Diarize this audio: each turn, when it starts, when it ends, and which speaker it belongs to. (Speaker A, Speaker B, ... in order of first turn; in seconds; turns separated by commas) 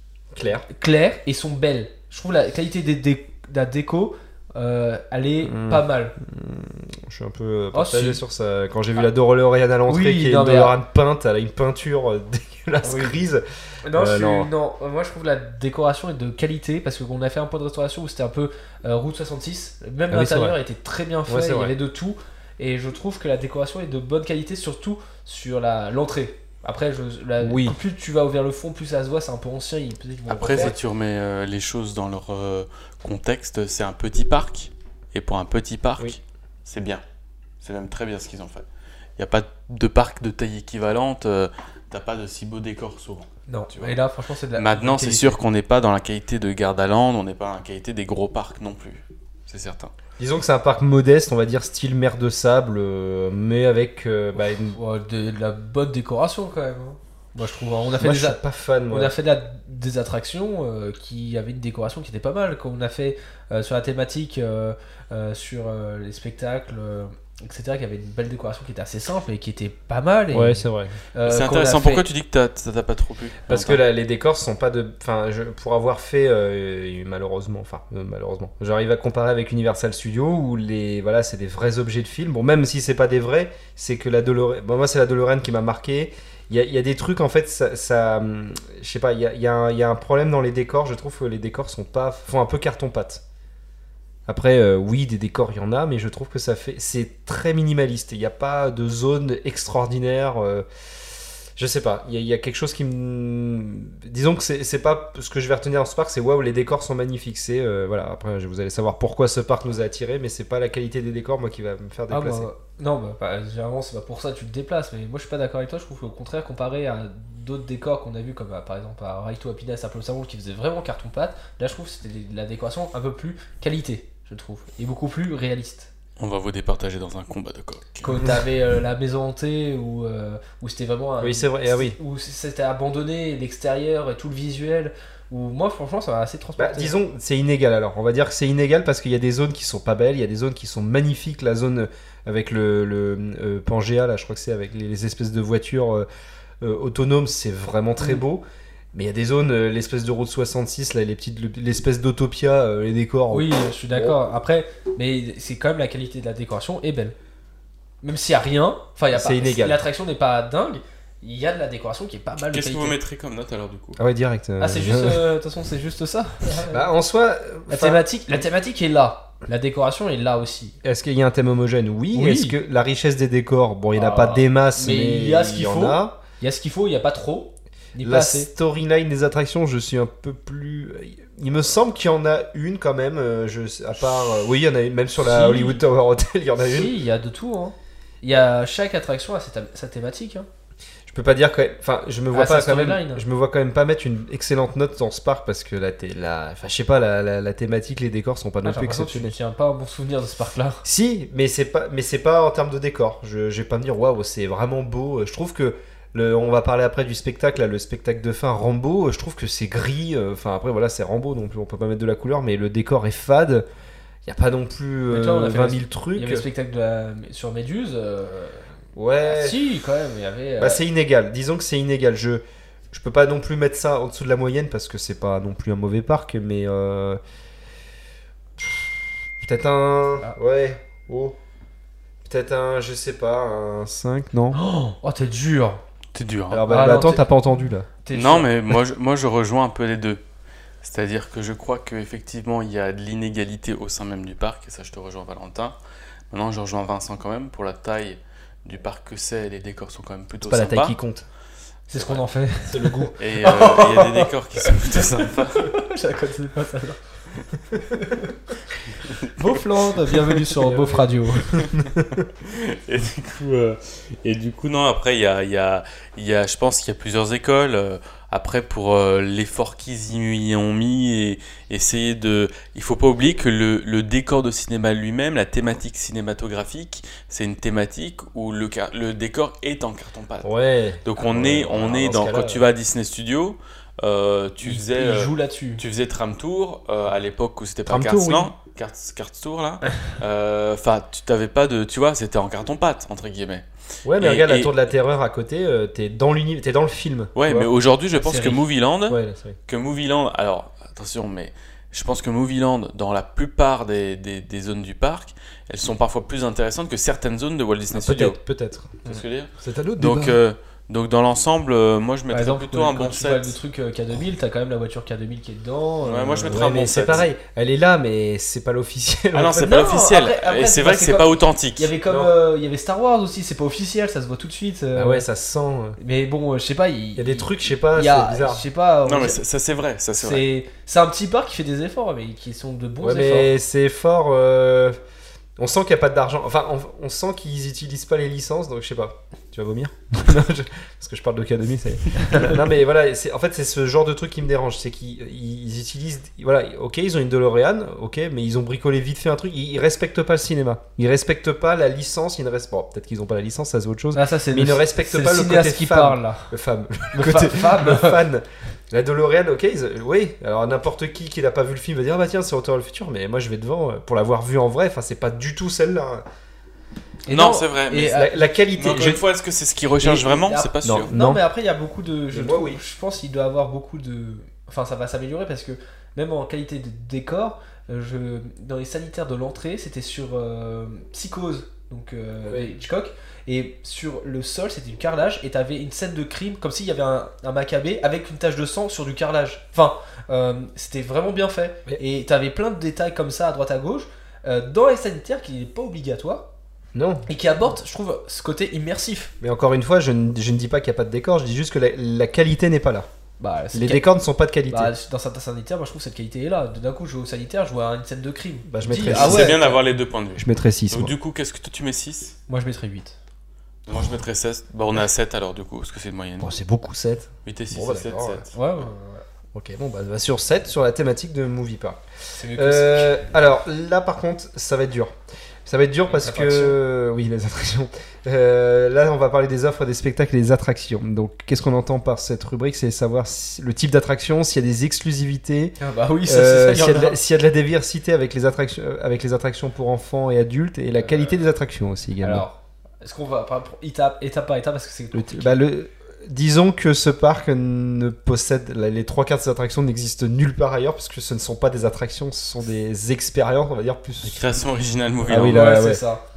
Speaker A: 0.3-0.7, Speaker B: 0.7-6.2, Speaker A: 5.5-14.5, Speaker B: 7.7-8.2, Speaker B: 9.9-10.7, Speaker B: 12.8-13.2, Speaker B: 13.8-30.8, Speaker A: 20.1-20.6, Speaker A: 21.3-21.7, Speaker A: 27.4-27.8, Speaker A: 30.3-30.7, Speaker C: 30.3-37.0, Speaker C: 37.6-38.6, Speaker C: 39.2-44.0, Speaker B: 43.5-45.4, Speaker C: 44.5-49.9, Speaker A: 50.2-54.8, Speaker B: 54.7-72.1, Speaker A: 58.0-59.1, Speaker A: 70.3-70.9, Speaker C: 71.2-73.8, Speaker A: 73.5-93.2, Speaker A: 94.3-100.7, Speaker A: 101.6-112.5, Speaker B: 112.1-125.9, Speaker C: 126.2-128.1, Speaker B: 128.0-137.0, Speaker A: 131.2-132.0, Speaker A: 136.6-146.1, Speaker A: 146.6-154.2, Speaker B: 153.3-157.2, Speaker B: 158.0-163.0, Speaker A: 159.1-159.8, Speaker C: 162.5-164.0, Speaker A: 164.0-165.2, Speaker B: 164.6-166.8, Speaker A: 166.7-168.0, Speaker B: 167.7-170.8, Speaker A: 170.8-176.2, Speaker B: 172.1-172.6, Speaker B: 173.9-178.5, Speaker A: 178.0-186.9, Speaker B: 185.2-185.8, Speaker B: 186.6-190.5, Speaker A: 191.1-199.3, Speaker B: 192.3-193.2, Speaker B: 198.6-200.8, Speaker A: 200.8-213.7, Speaker A: 214.2-216.4, Speaker B: 215.1-218.7, Speaker A: 219.0-219.6, Speaker B: 219.2-220.8, Speaker A: 220.6-227.2, Speaker A: 228.6-228.9, Speaker A: 229.4-231.4, Speaker A: 232.2-234.6, Speaker B: 234.5-235.8, Speaker C: 236.1-236.6, Speaker A: 236.5-237.9, Speaker B: 236.7-237.3, Speaker B: 238.0-238.5, Speaker C: 238.1-240.2, Speaker C: 240.8-245.8, Speaker C: 246.3-251.0, Speaker A: 250.4-251.2, Speaker B: 251.9-257.1, Speaker C: 251.9-252.2, Speaker A: 252.7-253.1, Speaker C: 253.2-255.7, Speaker B: 257.8-258.4, Speaker B: 259.3-261.6, Speaker A: 260.6-262.3, Speaker C: 261.6-261.8, Speaker C: 262.4-280.5, Speaker A: 280.4-282.6, Speaker C: 281.0-293.7, Speaker B: 284.6-285.8, Speaker A: 287.9-288.5, Speaker A: 294.1-297.7, Speaker C: 294.2-294.7, Speaker C: 297.4-308.4, Speaker B: 298.1-298.6, Speaker A: 299.1-299.6, Speaker A: 307.9-310.4, Speaker C: 309.0-313.6, Speaker B: 312.3-316.7, Speaker C: 316.0-317.3, Speaker A: 316.5-319.9, Speaker C: 319.3-321.9, Speaker B: 319.6-325.2, Speaker A: 322.1-322.3, Speaker A: 324.9-326.0, Speaker B: 326.0-329.4, Speaker A: 327.2-328.6, Speaker C: 329.1-330.5, Speaker B: 330.2-333.5, Speaker A: 333.0-335.0, Speaker A: 335.6-366.2, Speaker B: 342.2-342.5, Speaker B: 354.1-356.5, Speaker B: 357.1-358.2, Speaker B: 367.3-368.5, Speaker C: 367.3-368.2, Speaker A: 368.1-369.2, Speaker C: 368.7-371.1, Speaker B: 370.0-396.5, Speaker A: 370.8-371.4, Speaker A: 372.3-372.8, Speaker A: 382.5-382.7, Speaker A: 396.9-397.3, Speaker B: 397.3-399.3, Speaker A: 399.4-403.1, Speaker B: 403.4-404.0, Speaker A: 403.7-404.9, Speaker B: 404.7-409.8, Speaker A: 408.7-409.8, Speaker C: 409.1-412.4, Speaker A: 410.4-411.1, Speaker B: 412.5-413.2, Speaker C: 413.9-416.5, Speaker A: 416.4-418.4, Speaker C: 417.4-418.5, Speaker B: 418.5-419.2, Speaker A: 419.5-422.0, Speaker B: 422.3-423.2, Speaker A: 422.5-425.1, Speaker A: 425.7-442.4, Speaker B: 426.1-426.8, Speaker B: 435.8-437.2, Speaker B: 441.0-441.3, Speaker B: 442.2-445.6, Speaker A: 445.1-454.4, Speaker C: 454.2-455.7, Speaker A: 455.3-456.0, Speaker B: 455.3-456.2